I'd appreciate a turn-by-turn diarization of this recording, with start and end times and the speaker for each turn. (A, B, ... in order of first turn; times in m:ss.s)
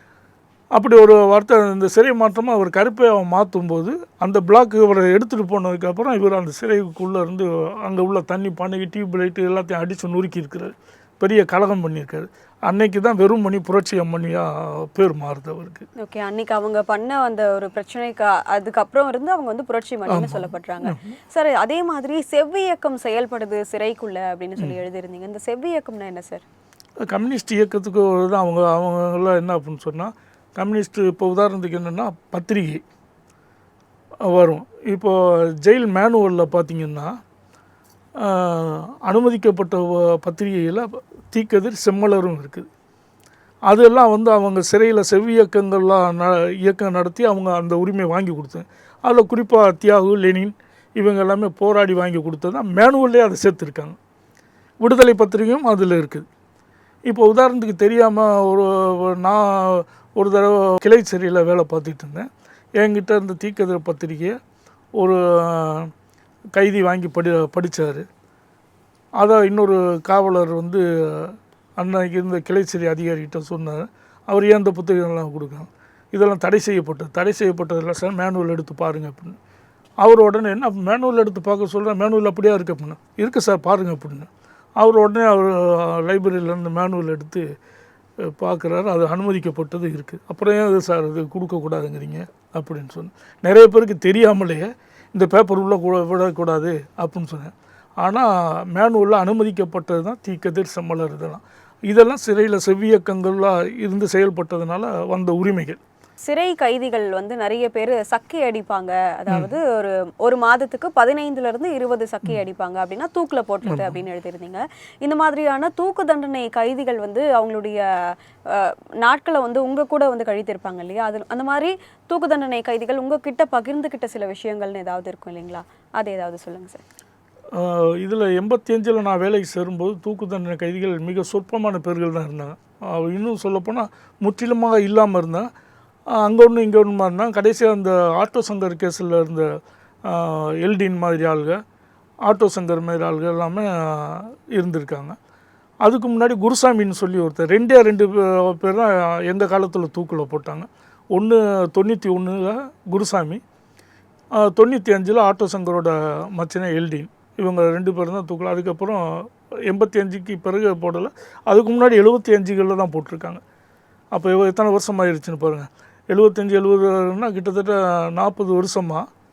0:00.7-0:15.8 A
0:16.0-0:26.4 B
0:20.1-0:21.1 A
0:27.0-0:32.8 A
0:34.3-0:37.1 A
0:38.2-0:42.7 A
0:43.7-0:54.0 A
0:54.8-0:56.2 A
0:57.1-1:02.3 A
1:02.8-1:04.4 A
1:05.0-1:05.9 A
1:06.6-1:08.0 A
1:09.2-1:19.4 A
1:20.0-1:24.3 A
1:24.8-1:27.4 A
1:28.3-1:45.8 A
1:46.3-1:57.8 B
1:53.6-1:54.0 A
1:58.5-2:06.8 B
2:07.5-2:15.5 A
2:16.1-2:19.5 A
2:20.1-2:21.6 A
2:22.2-2:25.2 A
2:25.8-2:33.4 A
2:34.4-2:39.0 A
2:39.7-2:43.4 A
2:44.1-2:49.0 A